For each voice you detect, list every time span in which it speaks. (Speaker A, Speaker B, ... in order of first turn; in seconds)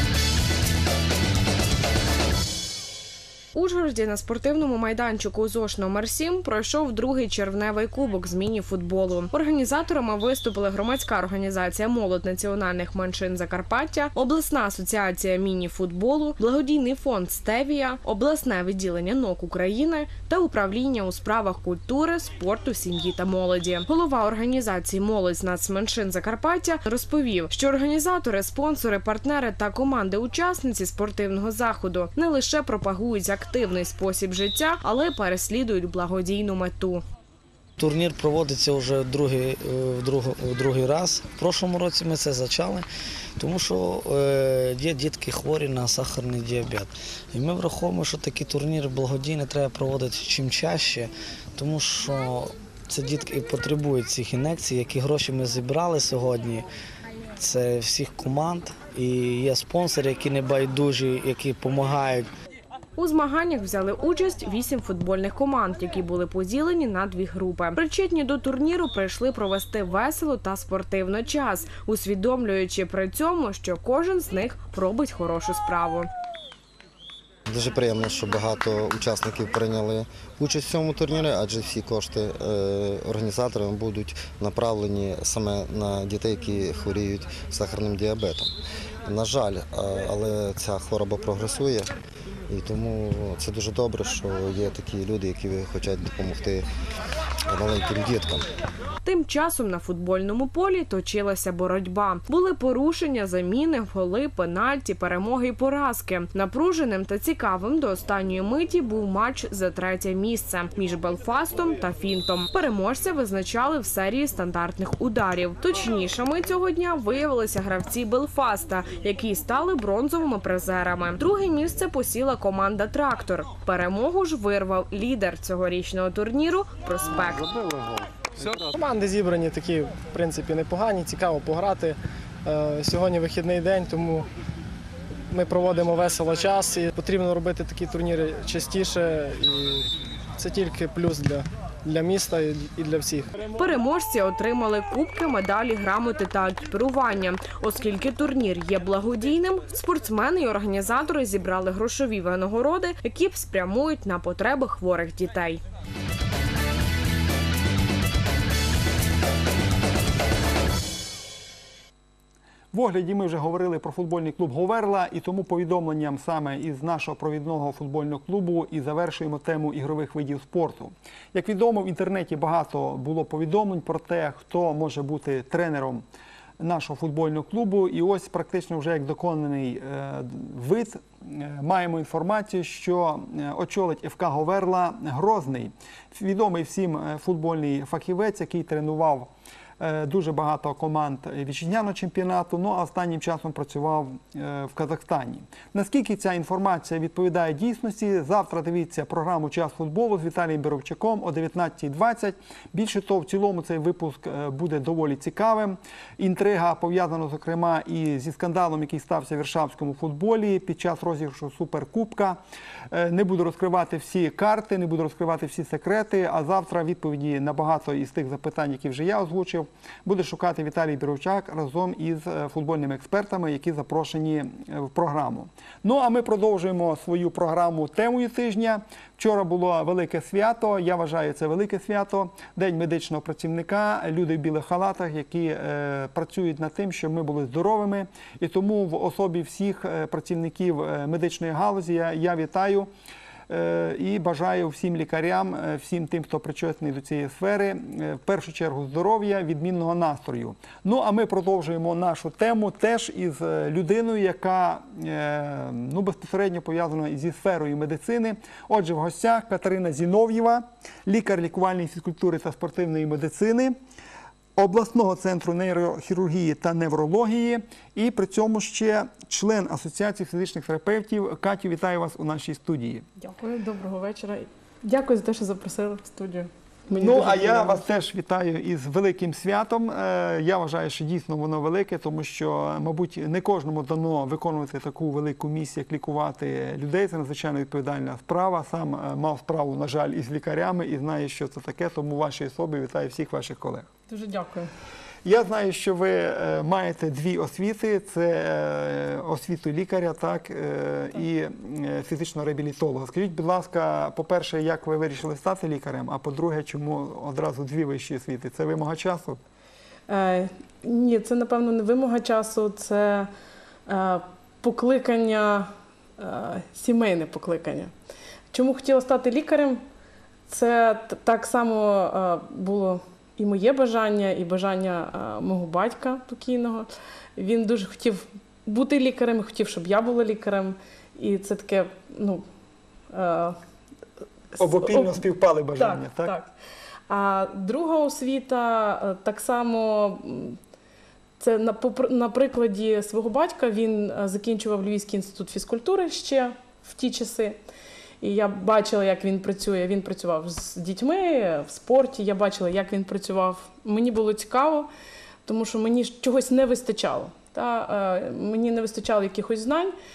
Speaker A: 3.5-37.0, 63.0-76.1, 99.0-127.5, 143.6-155.6
Speaker B: 37.8-42.9, 43.4-56.7, 57.4-62.3
Speaker C: 77.5-88.5, 89.1-91.9, 92.5-96.6, 97.5-98.5
Speaker D: 128.4-134.3, 135.3-143.5
Speaker E: 162.7-176.0, 176.6-212.4, 212.9-242.9, 243.5-263.8, 264.6-273.1, 277.0-293.9, 295.2-309.4, 334.6-336.4
Speaker F: 273.2-277.9, 294.1-294.7, 310.1-313.3, 313.9-317.9, 318.5-319.8, 320.5-332.4, 333.1-333.6, 334.6-335.2, 335.8-336.5, 337.1-340.6, 341.4-347.6, 348.2-354.9, 355.5-359.9